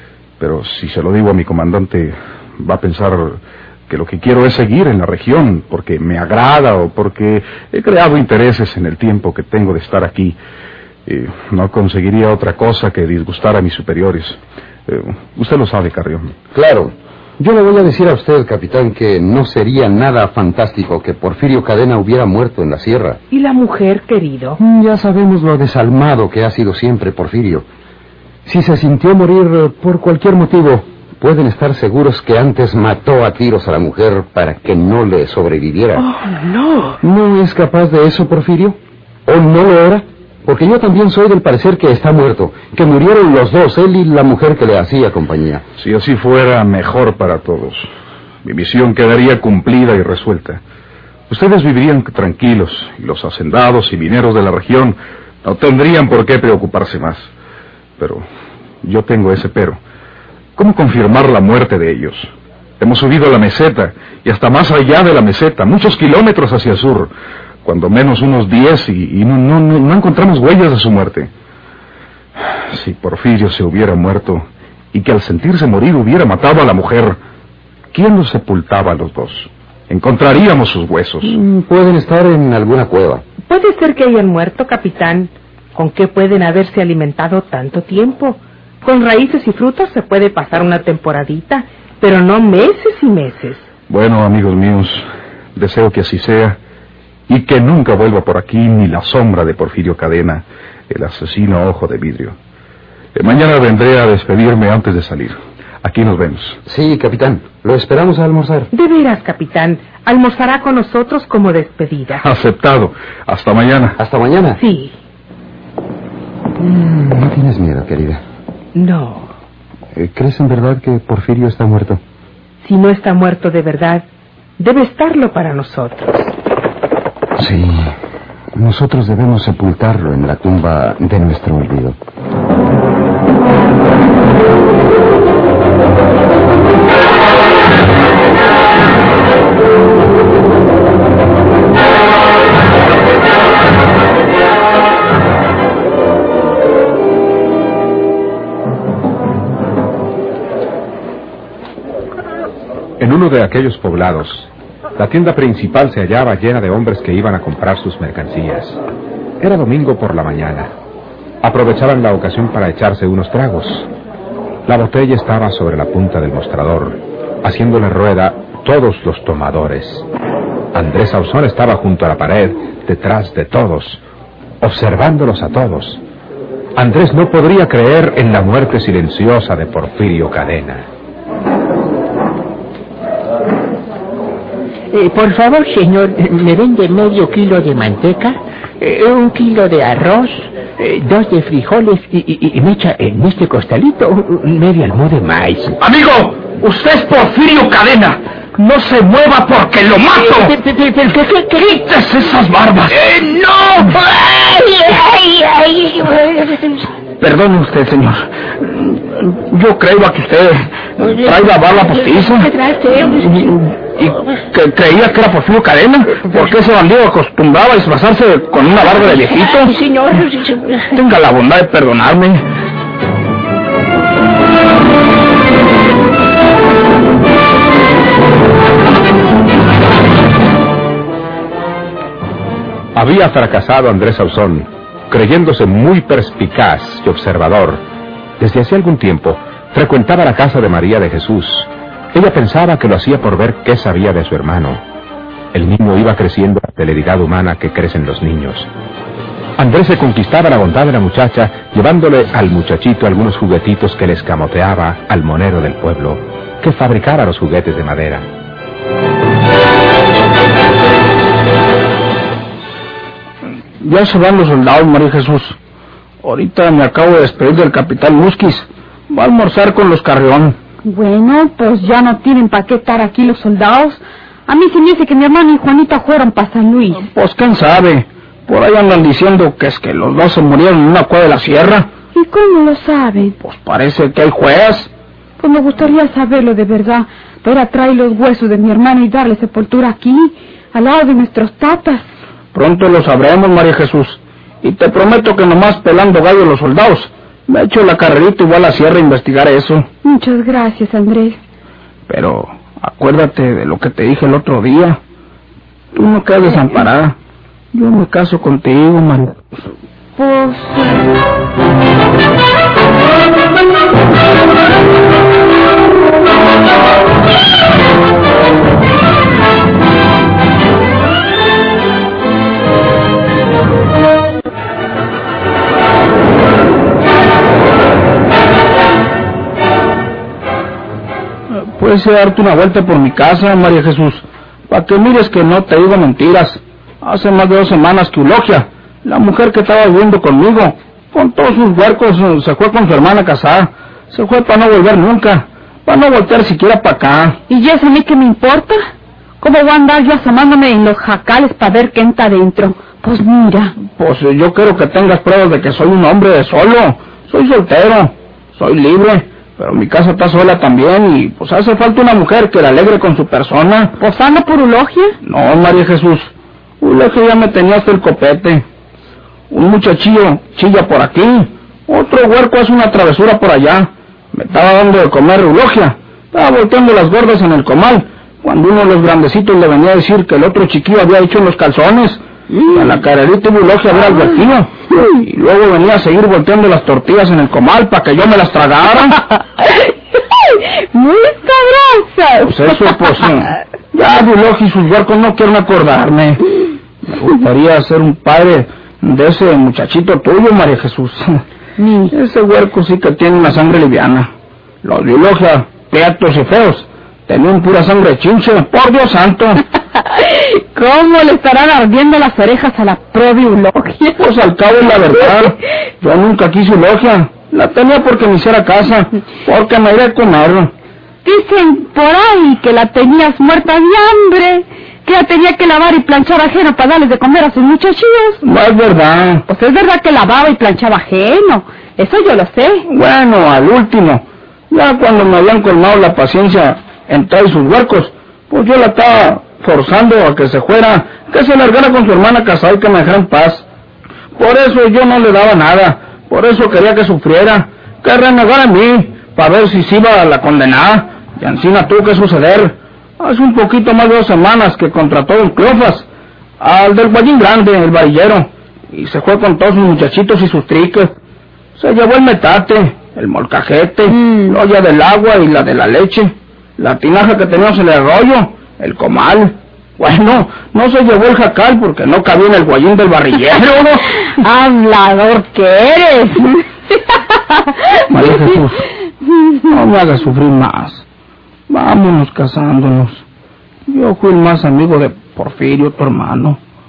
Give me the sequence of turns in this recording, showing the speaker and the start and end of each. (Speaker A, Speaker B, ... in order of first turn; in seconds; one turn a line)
Speaker A: 0.4-10.4
Speaker A: 11.1-16.3
Speaker B: 16.5-23.2
Speaker C: 23.3-24.6
Speaker B: 24.6-27.7
Speaker B: 28.4-36.1
Speaker C: 36.0-37.0
Speaker B: 37.0-45.6
Speaker A: 45.8-47.9
Speaker A: 48.4-50.6
Speaker A: 51.3-57.3
Speaker A: 58.0-58.2
Speaker A: 58.8-59.8
Speaker A: 60.6-67.1
Speaker A: 67.6-71.3
Speaker A: 72.7-77.2
Speaker A: 77.9-81.4
Speaker B: 81.2-83.2
Speaker C: 83.5-93.7
Speaker A: 93.9-96.6
Speaker A: 97.3-102.4
Speaker A: 103.2-106.6
Speaker B: 106.7-108.7
Speaker C: 108.7-112.2
Speaker A: 112.2-114.0
Speaker B: 114.0-114.6
Speaker C: 114.6-114.9
Speaker B: 116.6-118.2
Speaker C: 118.8-119.3
Speaker B: 119.9-122.0
Speaker C: 122.6-124.1
Speaker C: 124.6-126.3
Speaker B: 127.4-128.0
Speaker B: 128.6-132.0
Speaker D: 153.0-158.8
Speaker D: 159.4-160.7
Speaker D: 161.4-163.9
Speaker D: 164.7-170.1
Speaker D: 170.7-174.0
Speaker D: 174.6-176.0
Speaker D: 176.8-180.9
Speaker E: 184.9-195.8
Speaker F: 195.8-200.5
Speaker E: 199.7-206.8
Speaker F: 202.4-202.8
Speaker F: 207.2-212.5
Speaker E: 211.8-213.5
Speaker F: 213.1-219.8
Speaker E: 219.2-220.9
Speaker F: 220.9-222.4
Speaker D: 233.0-237.8
Speaker D: 238.4-244.8
Speaker D: 245.5-248.7
Speaker D: 249.6-258.3
Speaker F: 263.8-265.6
Speaker F: 266.2-270.6
Speaker G: 270.9-277.1
Speaker F: 277.1-281.9
Speaker G: 282.1-283.4
Speaker F: 283.4-284.9
Speaker G: 285.4-292.1
Speaker F: 292.5-299.9
Speaker G: 300.0-301.4
Speaker F: 302.1-305.0
Speaker F: 305.9-307.2
Speaker F: 307.7-309.4
Speaker G: 310.2-310.9
Speaker F: 331.5-347.4
Speaker G: 347.5-348.8
Speaker G: 349.4-353.8
Speaker F: 353.8-363.9
Speaker G: 364.0-365.2
Speaker F: 365.2-368.7
Speaker F: 369.5-389.2
Speaker G: 390.6-392.5
Speaker F: 392.4-396.4
Speaker F: 397.0-401.4
Speaker G: 401.8-402.1
Speaker F: 402.1-404.3
Speaker F: 404.8-409.6
Speaker G: 410.1-414.2
Speaker F: 414.2-420.7
Speaker G: 421.2-428.4
Speaker F: 428.4-429.4
Speaker G: 429.5-432.9
Speaker F: 432.9-443.7
Speaker F: 444.4-456.1
Speaker F: 456.6-461.1
Speaker F: 461.8-474.1
Speaker G: 464.2-464.6
Speaker G: 474.4-476.7
Speaker F: 478.1-478.9
Speaker F: 479.7-481.1
Speaker F: 481.7-483.2
Speaker F: 483.9-486.6